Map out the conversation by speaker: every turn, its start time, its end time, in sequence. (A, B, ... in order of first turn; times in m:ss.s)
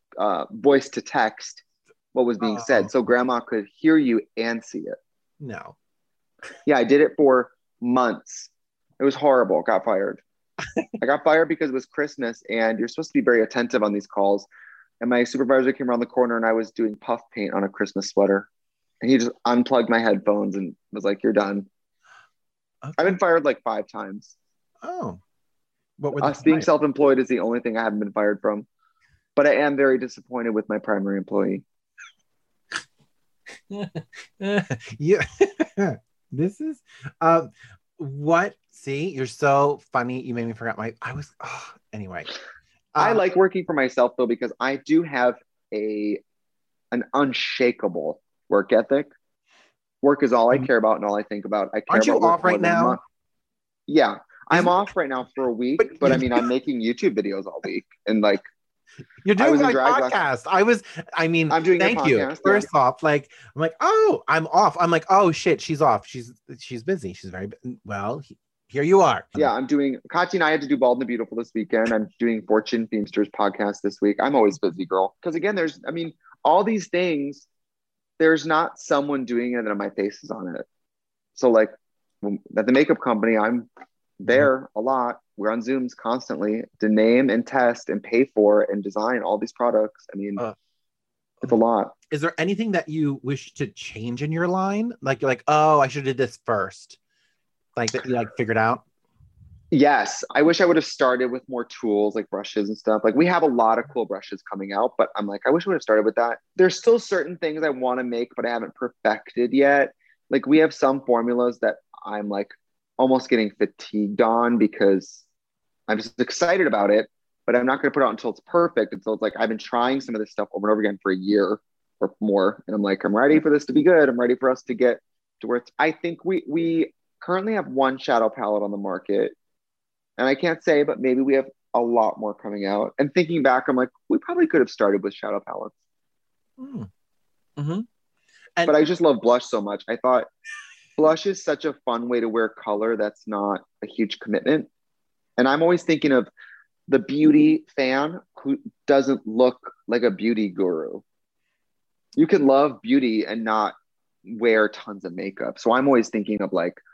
0:00.2-0:05.0 A
0:02.4-0:02.9 B
0:05.4-0:05.8 B
0:06.7-0:10.2 A
0:11.0-0:14.5 A
0:15.0-0:18.5 A
0:19.0-0:21.7 A
0:22.8-0:23.1 B
0:23.0-0:24.4 A
0:24.8-0:25.2 B
0:26.0-0:26.7 B
0:26.2-0:28.7 A
0:29.4-0:31.6 A
0:33.7-0:42.3 B
0:42.9-0:43.2 B
0:43.0-0:46.2 A
0:46.9-0:49.1 A
0:50.0-0:53.0 A
0:51.9-0:53.0 B
0:53.9-0:58.4 A
0:55.8-0:56.4 B
0:59.2-1:09.5 B
0:59.4-1:00.2 A
1:01.5-1:02.7 A
1:09.4-1:17.5 A
1:18.2-1:20.6 A
1:21.4-1:23.7 A
1:24.2-1:30.4 A
1:31.4-1:31.9 A
1:32.1-1:37.0 B
1:37.8-1:38.8 B
1:39.7-1:55.2 A
1:55.9-2:09.4 A
2:10.2-2:15.7 A
2:16.6-2:16.9 B
2:17.6-2:17.9 B
2:18.6-2:20.3 A
2:21.0-2:24.7 A
2:25.4-2:26.3 A
2:26.9-2:31.0 A
2:32.2-2:36.8 A